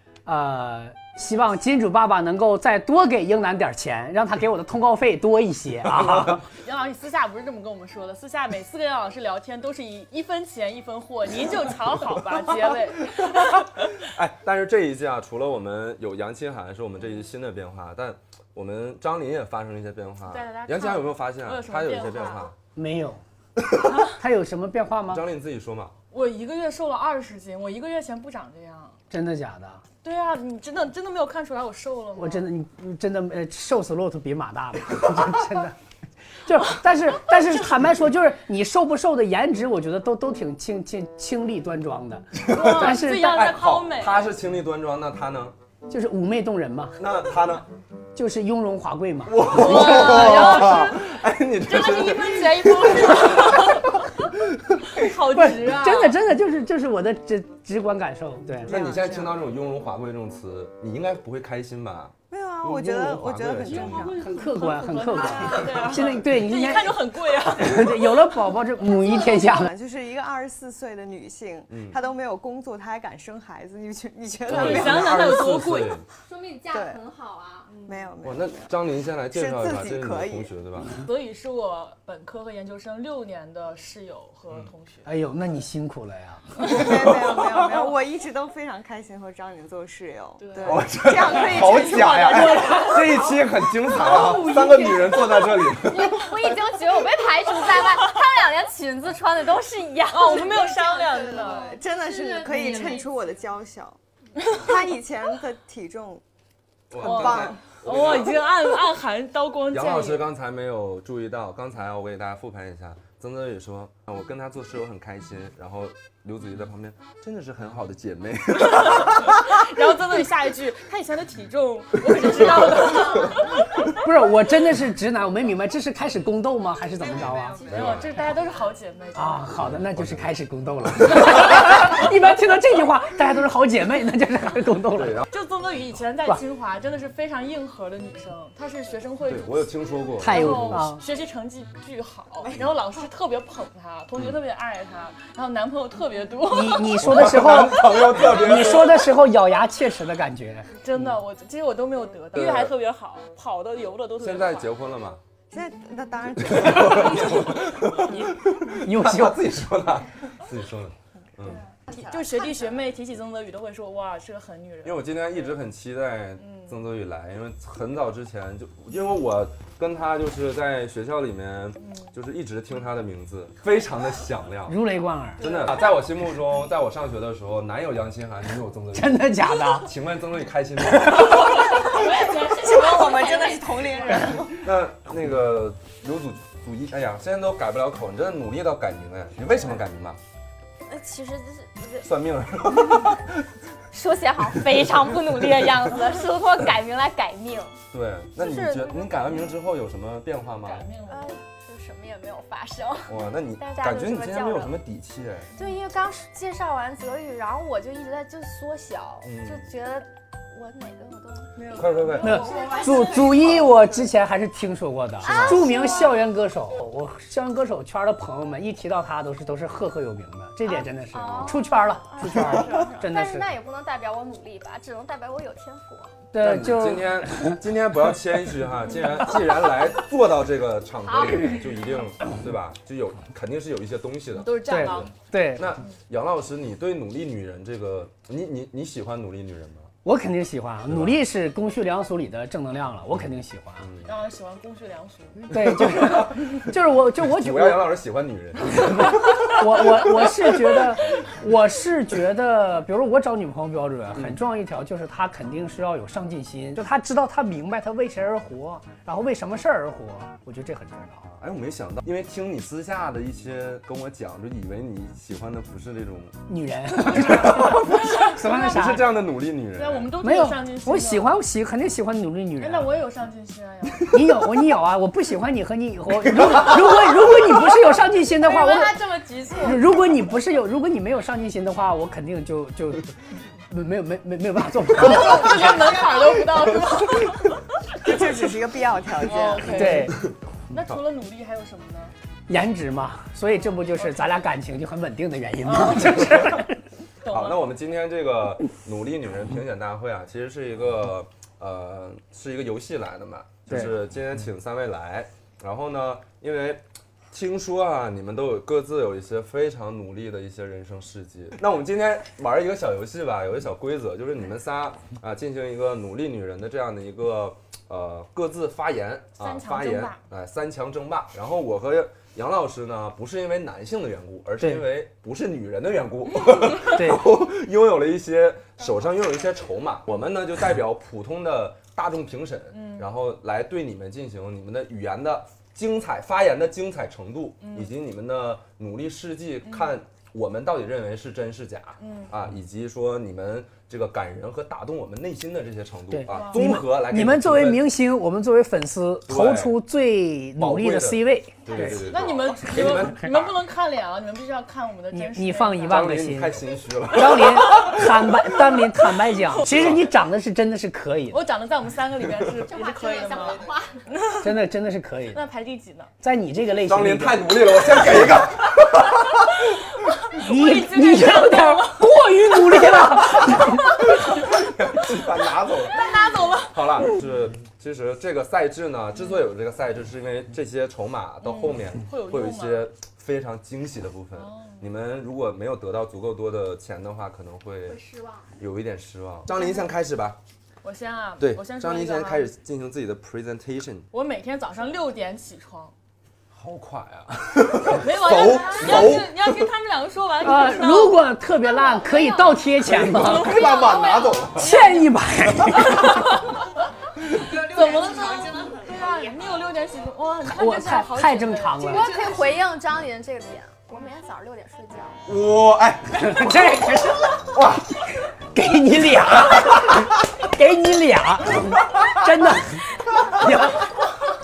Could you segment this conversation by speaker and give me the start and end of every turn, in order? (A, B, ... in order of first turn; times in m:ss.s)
0:00.3-0:06.4 A
0:06.0-0:06.4 B
0:06.6-0:13.9 C
0:14.0-0:22.5 B
0:20.3-0:22.5 C
0:22.8-0:23.2 A
0:24.0-0:25.2 A
0:25.1-0:25.9 B
0:26.1-0:29.0 C
0:29.1-0:29.8 A
0:30.0-0:32.5 C
0:32.2-0:35.8 A
0:36.4-0:43.4 A
0:42.4-0:45.6 B
0:42.5-0:44.3 C
0:45.9-0:47.0 A
0:47.0-0:47.7 B
0:48.2-0:50.5 A
0:49.3-0:53.8 B
0:49.5-0:51.0 C
0:51.6-0:54.0 C
0:54.9-0:56.2 C
0:55.3-0:58.7 A
0:58.7-0:59.4 C
0:58.7-1:04.2 B
1:02.3-1:04.3 D
1:03.7-1:08.3 C
1:04.2-1:09.7 A
1:09.2-1:15.4 D
1:11.7-1:12.0 B
1:14.5-1:16.0 C
1:14.5-1:16.1 B
1:15.4-1:15.6 E
1:16.2-1:17.8 E
1:16.7-1:17.0 D
1:17.7-1:18.0 C
1:17.8-1:18.7 D
1:18.2-1:20.9 B
1:19.3-1:20.5 D
1:20.9-1:25.1 C
1:25.0-1:26.5 A
1:26.6-1:32.8 D
1:30.4-1:33.3 C
1:30.6-1:36.5 B
1:34.0-1:43.3 E
1:34.1-1:34.7 C
1:40.1-1:41.8 C
1:41.3-1:46.2 D
1:42.4-1:43.1 C
1:46.9-1:48.4 B
1:47.0-1:47.6 D
1:47.0-1:50.3 C
1:49.7-1:59.6 B
1:58.8-2:03.7 C
2:02.5-2:03.4 B
2:04.0-2:07.6 A
2:07.0-2:09.5 C
2:07.7-2:08.5 B
2:09.2-2:15.2 A
2:09.6-2:10.3 B
2:11.0-2:11.3 B
2:14.9-2:15.3 B
2:15.3-2:27.2 C
2:19.2-2:20.9 B
2:20.2-2:21.0 A
2:26.5-2:30.7 A
2:27.0-2:29.1 B
2:30.8-2:34.7 C
2:32.3-2:32.7 B
2:34.2-2:35.2 B
2:35.5-2:37.6 D
2:36.5-2:41.6 B
2:38.8-2:39.4 A
2:41.9-2:42.9 E
2:42.1-2:45.3 C
2:44.8-2:54.8 B
2:46.4-2:46.8 C
2:51.8-2:52.1 C
2:54.7-2:55.4 A
2:55.4-3:01.8 B
2:59.0-2:59.9 A
3:00.9-3:01.3 A
3:01.7-3:02.3 C
3:01.8-3:04.2 E
3:02.2-3:04.6 D
3:03.1-3:03.4 C
3:04.6-3:10.2 B
3:10.9-3:12.1 E
3:12.0-3:13.5 B
3:13.9-3:17.8 E
3:17.9-3:20.9 B
3:18.4-3:19.4 E
3:20.6-3:21.3 C
3:21.1-3:24.8 E
3:23.1-3:25.5 B
3:25.6-3:34.0 E
3:29.2-3:29.7 B
3:31.6-3:33.3 C
3:31.7-3:32.4 B
3:32.2-3:43.5 A
3:32.6-3:33.0 D
3:35.2-3:36.3 E
3:35.2-3:35.7 B
3:40.6-3:46.2 E
3:42.1-3:43.0 C
3:46.3-3:47.6 A
3:46.4-3:59.9 B
3:51.0-3:51.7 E
3:54.4-3:55.1 C
3:54.7-3:55.7 A
4:00.0-4:03.9 A
4:00.9-4:01.2 B
4:03.8-4:04.1 B
4:04.0-4:05.5 C
4:05.5-4:07.9 A
4:05.5-4:10.8 B
4:08.7-4:21.3 A
4:21.3-4:26.4 B
4:26.5-4:29.0 A
4:27.1-4:30.1 B
4:27.6-4:28.6 C
4:29.8-4:31.4 C
4:30.2-4:32.9 A
4:32.6-4:34.2 C
4:34.1-4:39.0 A
4:38.4-4:39.8 C
4:39.0-4:39.7 E
4:39.6-4:43.1 A
4:43.7-4:45.9 A
4:45.0-4:47.6 C
4:48.0-4:50.0 D
4:49.2-4:50.2 C
4:49.7-4:50.2 A
4:50.7-4:52.1 C
4:52.5-4:56.8 A
4:53.8-4:54.5 C
4:55.6-4:56.6 C
4:57.2-4:57.7 C
4:57.3-5:47.9 B
5:19.4-5:20.2 C
5:26.9-5:27.2 A
5:32.7-5:33.1 C
5:37.6-5:37.9 C
5:39.7-5:40.0 C
5:42.0-5:42.3 C
5:46.1-5:52.0 A
5:46.3-5:46.7 C
5:49.3-5:49.8 B
5:50.6-5:53.6 B
5:51.8-5:56.1 C
5:55.1-6:01.4 A
5:55.9-5:58.5 B
5:59.6-6:00.1 B
6:01.3-6:04.4 C
6:02.7-6:04.0 E
6:04.4-6:05.4 A
6:05.3-6:06.1 C
6:06.2-6:07.6 A
6:06.8-6:09.4 B
6:10.3-6:12.3 C
6:10.4-6:14.0 A
6:14.2-6:28.0 B
6:15.9-6:16.9 C
6:21.4-6:22.9 C
6:24.3-6:24.9 C
6:27.8-6:28.5 E
6:28.6-6:30.4 B
6:29.5-6:29.8 C
6:30.8-6:32.5 C
6:31.4-6:34.1 B
6:34.1-6:36.0 C
6:36.5-6:39.7 B
6:37.9-6:41.2 C
6:38.2-6:39.1 E
6:40.4-6:43.5 A
6:41.5-6:42.6 E
6:42.9-6:44.7 B
6:43.3-6:46.6 C
6:43.5-6:44.5 E
6:44.6-6:46.5 A
6:47.3-6:52.4 C
6:47.4-6:49.4 E
6:50.5-6:52.1 A
6:51.8-6:55.2 E
6:55.3-6:56.6 B
6:56.1-6:57.5 A
6:57.5-6:58.1 B
6:58.5-7:04.0 A
6:59.5-7:00.0 B